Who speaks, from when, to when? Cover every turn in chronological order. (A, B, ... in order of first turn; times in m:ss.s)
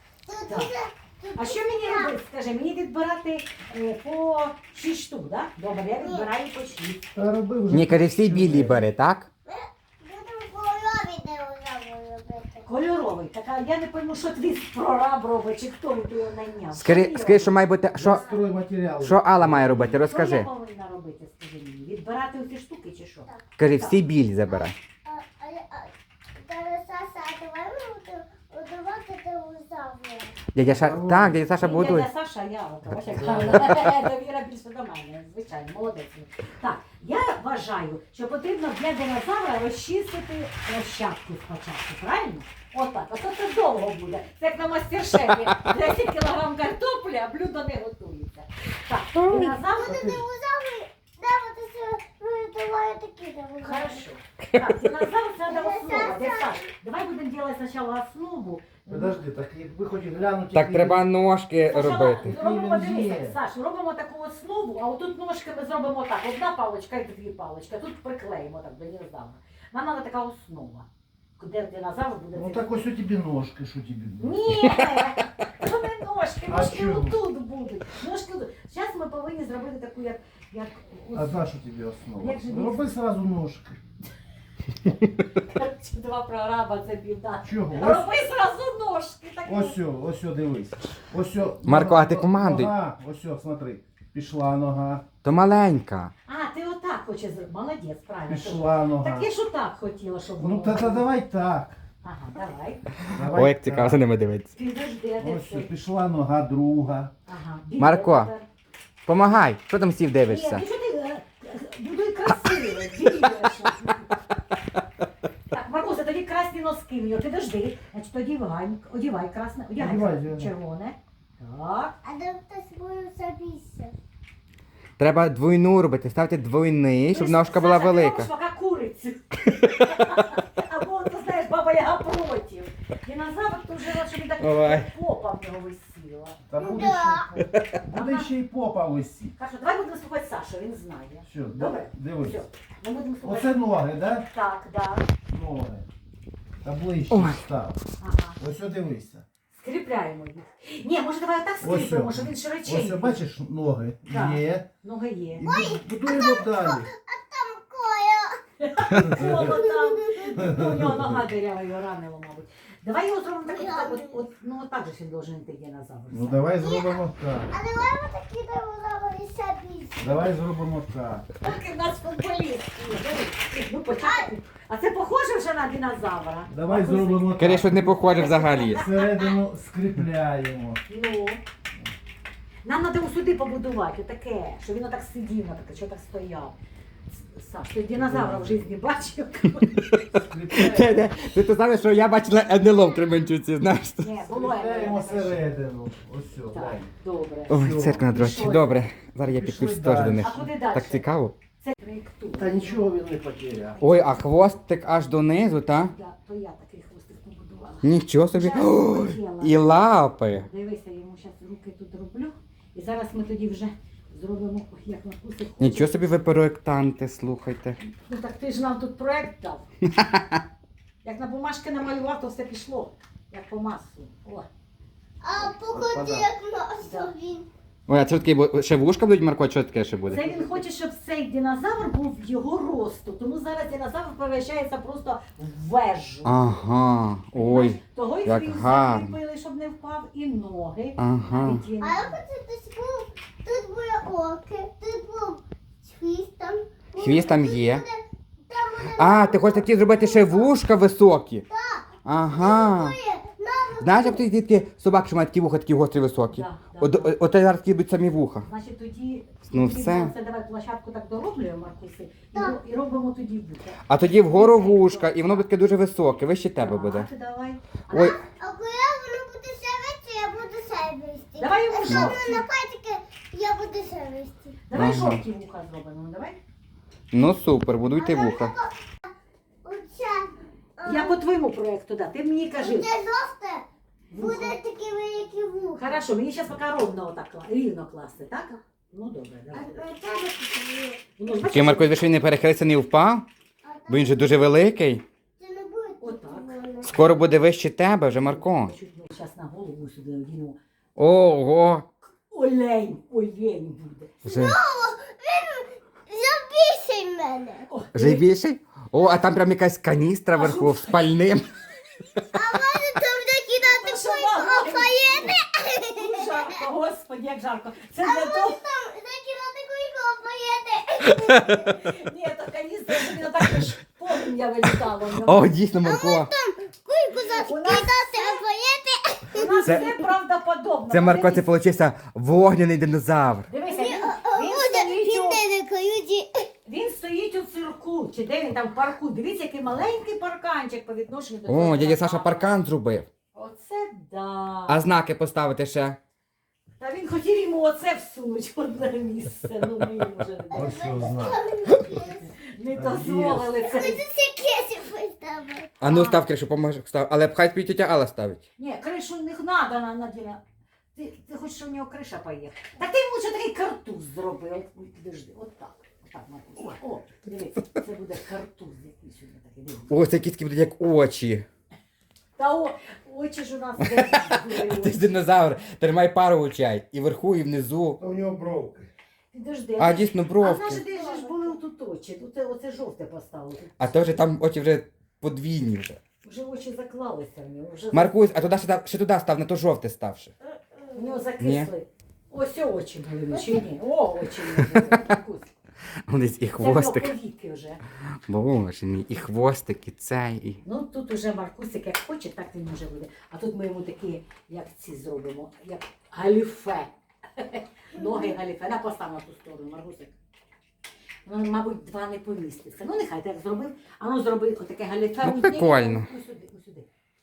0:00.2-0:02.2 A
0:01.4-0:07.0 B
0:06.0-0:06.3 A
0:07.0-0:08.8 C
0:07.7-0:09.3 D
0:09.5-0:12.7 A
0:12.6-0:17.6 B
0:16.7-0:18.3 D
0:18.0-0:20.0 C
0:19.0-0:20.5 D
0:20.0-0:24.0 B
0:23.6-0:24.8 D
0:24.5-0:30.4 A
0:30.5-0:32.1 D
0:30.6-0:31.5 C
0:31.6-0:50.0 B
0:33.3-0:33.6 D
0:49.8-0:54.0 A
0:49.9-0:50.2 C
0:53.6-0:59.2 B
0:55.5-0:56.6 A
0:58.9-1:01.1 C
1:00.5-1:02.3 D
1:01.7-1:10.9 B
1:02.2-1:03.4 C
1:11.4-1:12.7 B
1:12.3-1:14.4 C
1:14.2-1:21.4 B
1:16.5-1:17.2 C
1:21.1-1:23.8 C
1:22.2-1:22.8 B
1:25.2-1:29.8 B
1:27.4-1:28.1 C
1:29.4-1:35.1 C
1:31.6-1:32.8 D
1:35.2-1:36.1 D
1:36.3-1:41.1 B
1:38.3-1:39.3 C
1:40.4-1:41.8 C
1:42.0-1:42.8 B
1:43.1-1:44.5 D
1:43.1-1:44.0 C
1:44.5-1:45.7 B
1:45.2-1:47.1 C
1:47.3-1:48.5 B
1:47.8-1:48.3 D
1:49.1-1:50.6 D
1:50.3-1:54.2 B
1:55.5-2:02.0 B
1:59.8-2:00.5 C
2:02.0-2:04.0 A
2:05.0-2:08.3 D
2:07.1-2:16.4 B
2:14.4-2:14.9 D
2:16.5-2:19.3 C
2:16.6-2:17.4 A
2:17.9-2:18.3 B
2:19.4-2:23.6 B
2:21.2-2:22.4 C
2:23.2-2:24.3 C
2:24.2-2:25.1 B
2:25.3-2:25.9 C
2:26.6-2:27.8 C
2:27.1-2:27.5 D
2:28.0-2:28.4 B
2:28.4-2:29.2 C
2:29.5-2:33.2 B
2:31.6-2:34.7 C
2:34.1-2:35.5 B
2:35.4-2:36.9 C
2:35.4-2:38.4 A
2:38.6-2:46.5 B
2:38.9-2:39.6 C
2:39.3-2:40.4 A
2:40.4-2:41.2 C
2:43.5-2:44.2 A
2:46.1-2:47.5 C
2:46.6-2:50.2 A
2:50.0-2:51.3 C
2:51.4-2:59.4 B
2:54.0-2:54.3 A
2:56.5-2:58.0 C
2:57.4-2:58.8 D
2:58.7-3:00.8 C
3:00.9-3:01.4 B
3:02.6-3:06.6 B
3:07.1-3:10.0 B
3:07.9-3:08.6 C
3:10.2-3:10.9 C
3:10.6-3:14.1 D
3:14.0-3:15.5 B
3:14.2-3:16.9 C
3:16.5-3:18.8 B
3:17.5-3:21.4 D
3:17.5-3:18.1 C
3:19.3-3:20.5 C
3:20.2-3:21.0 B
3:21.6-3:22.8 B
3:22.4-3:23.8 C
3:23.8-3:24.4 B
3:23.8-3:25.9 D
3:25.8-3:36.1 B
3:27.8-3:30.5 D
3:35.6-3:37.8 D
3:37.8-3:39.7 B
3:39.8-3:40.4 D
3:41.0-3:44.5 B
3:45.2-3:47.5 A
3:45.7-3:46.3 C
3:46.8-3:47.1 B
3:47.9-3:50.4 D
3:50.1-3:56.4 B
3:56.2-3:59.2 D
3:57.4-4:02.2 B
4:01.0-4:01.6 D
4:01.8-4:10.5 A
4:07.0-4:07.8 D
4:08.8-4:11.4 D
4:11.5-4:14.2 A
4:12.0-4:13.0 D
4:13.8-4:18.5 D
4:16.3-4:17.2 B
4:18.4-4:25.5 B
4:19.5-4:20.1 D
4:23.9-4:27.1 D
4:26.6-4:28.2 B
4:27.9-4:28.2 D
4:28.0-4:34.6 A
4:31.4-4:32.4 B
4:31.9-4:32.2 D
4:34.7-4:36.4 B
4:34.7-4:35.2 D
4:37.1-4:38.5 D
4:37.9-4:39.1 A
4:39.6-4:41.2 A
4:40.8-4:42.9 B
4:42.5-4:46.0 A
4:44.1-4:44.6 B
4:45.8-4:49.8 B
4:49.5-4:51.1 A
4:51.2-4:52.1 B
4:51.4-4:53.3 D
4:53.6-4:54.4 A
4:53.9-4:55.0 D
4:55.4-4:57.0 A
4:56.0-4:57.1 B
4:56.8-4:58.7 D
4:58.2-5:00.6 B
5:01.0-5:01.8 D
5:02.2-5:04.1 B
5:04.2-5:07.7 A
5:04.2-5:04.6 D
5:07.7-5:08.2 B
5:07.9-5:11.5 D
5:10.3-5:11.1 B
5:12.3-5:16.6 A
5:13.6-5:18.6 B
5:18.0-5:21.7 A
5:21.0-5:21.6 D
5:21.5-5:25.5 B
5:25.2-5:26.3 D
5:25.8-5:29.9 A
5:27.2-5:27.9 B
5:29.3-5:31.5 B
5:30.9-5:33.5 D
5:33.5-5:35.4 B
5:33.7-5:36.5 A
5:36.7-5:42.5 B
5:41.5-5:43.1 D
5:43.3-5:44.8 B
5:44.7-5:46.0 D
5:46.8-5:51.2 B
5:50.5-5:52.3 A
5:50.5-5:51.5 C
5:52.1-5:54.0 B
5:52.7-5:53.5 C
5:53.6-5:55.8 A
5:55.8-5:58.4 D
5:55.8-5:56.2 B
5:58.6-6:00.4 B
6:01.0-6:10.0 B
6:09.9-6:11.4 D
6:12.4-6:15.1 B
6:13.8-6:14.2 D
6:14.7-6:18.0 D
6:18.0-6:18.9 C
6:19.3-6:23.9 B
6:19.8-6:20.8 D
6:20.9-6:21.3 A
6:23.8-6:26.0 D
6:26.2-6:28.3 B
6:27.9-6:30.3 D
6:30.6-6:31.0 A
6:30.9-6:35.5 B
6:31.4-6:31.7 D
6:36.1-6:37.2 D
6:36.6-6:37.8 B
6:38.3-6:40.6 D
6:40.6-6:50.2 B
6:51.2-6:56.9 B
6:55.2-6:56.1 D